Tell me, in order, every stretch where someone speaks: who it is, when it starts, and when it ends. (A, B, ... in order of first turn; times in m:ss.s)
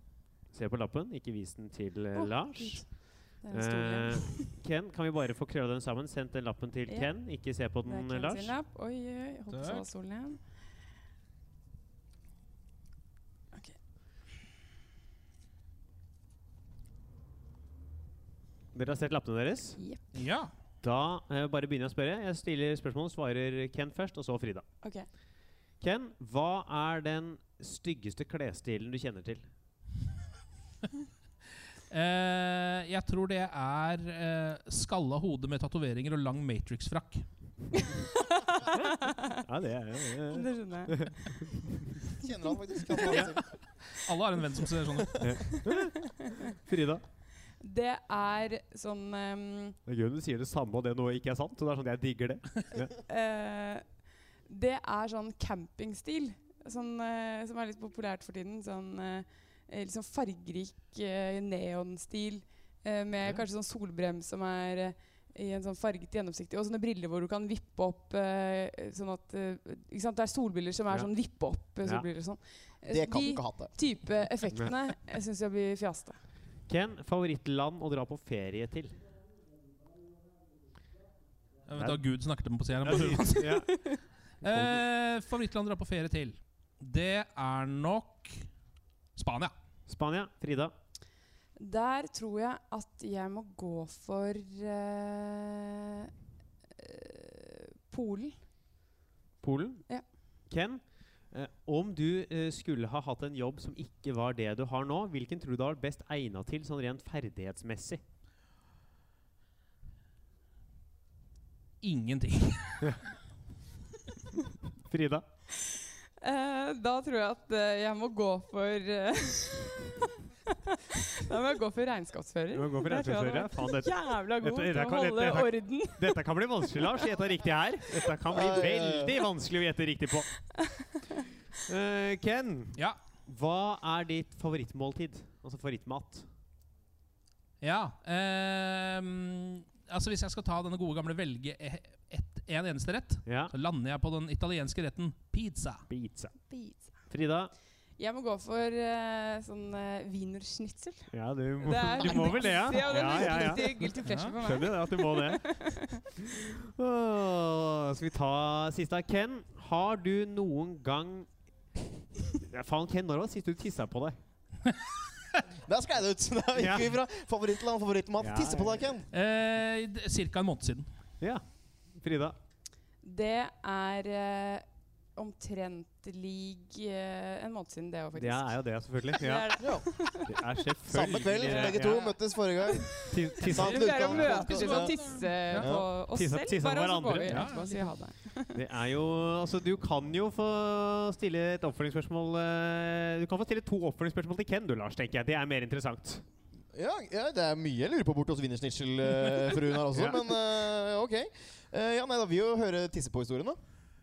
0:00.5-0:02.8 A
0:02.1-0:02.8 B
0:03.4-0:04.5 B
0:03.5-0:08.5 A
0:07.8-0:10.4 B
0:09.5-0:09.8 C
0:18.7-0:19.8 A
0:20.1-0:20.5 C
0:20.8-0:24.6 A
0:25.8-0:29.4 A
0:31.9-0:37.3 C
0:37.7-0:39.4 B
0:38.7-0:41.9 A
0:40.3-0:41.1 B
0:42.1-0:43.5 D
0:43.0-0:45.3 C
0:45.0-0:45.4 D
0:45.2-0:47.0 A
0:45.5-0:46.5 B
0:47.6-0:49.8 B
0:49.9-0:52.9 A
0:53.0-0:53.8 B
0:54.5-1:16.2 B
1:12.9-1:13.8 D
1:16.7-1:19.0 A
1:21.7-1:23.7 C
1:22.8-1:23.7 A
1:23.7-1:24.0 B
1:24.4-1:28.5 C
1:24.5-1:24.8 A
1:29.2-1:29.5 C
1:29.9-1:30.7 A
1:31.6-1:36.1 B
1:36.8-1:38.4 B
1:39.4-1:39.8 A
1:40.5-1:48.0 A
1:51.8-1:53.0 C
1:54.9-1:55.2 A
1:55.7-2:06.2 B
2:02.5-2:10.3 A
2:08.3-2:09.2 D
2:10.6-2:11.2 B
2:11.7-2:16.3 A
2:17.6-2:25.8 C
2:23.3-2:23.5 A
2:25.9-2:26.3 A
2:26.4-2:26.9 B
2:27.1-2:27.5 A
2:28.0-2:36.1 B
2:31.1-2:35.5 A
2:34.0-2:34.4 C
2:36.1-2:41.3 A
2:42.3-2:44.2 A
2:45.6-2:49.1 D
2:46.6-2:46.9 A
2:48.2-2:48.9 A
2:49.1-2:50.9 C
2:52.0-2:52.4 A
2:53.0-2:58.5 B
2:58.2-3:02.1 A
2:59.1-3:00.4 B
2:59.6-2:59.9 D
3:00.9-3:05.0 D
3:01.5-3:08.6 B
3:03.0-3:04.5 A
3:04.4-3:05.7 C
3:05.5-3:05.9 D
3:06.1-3:07.5 A
3:07.3-3:07.9 C
3:08.5-3:16.2 A
3:16.7-3:23.6 D
3:19.9-3:20.2 A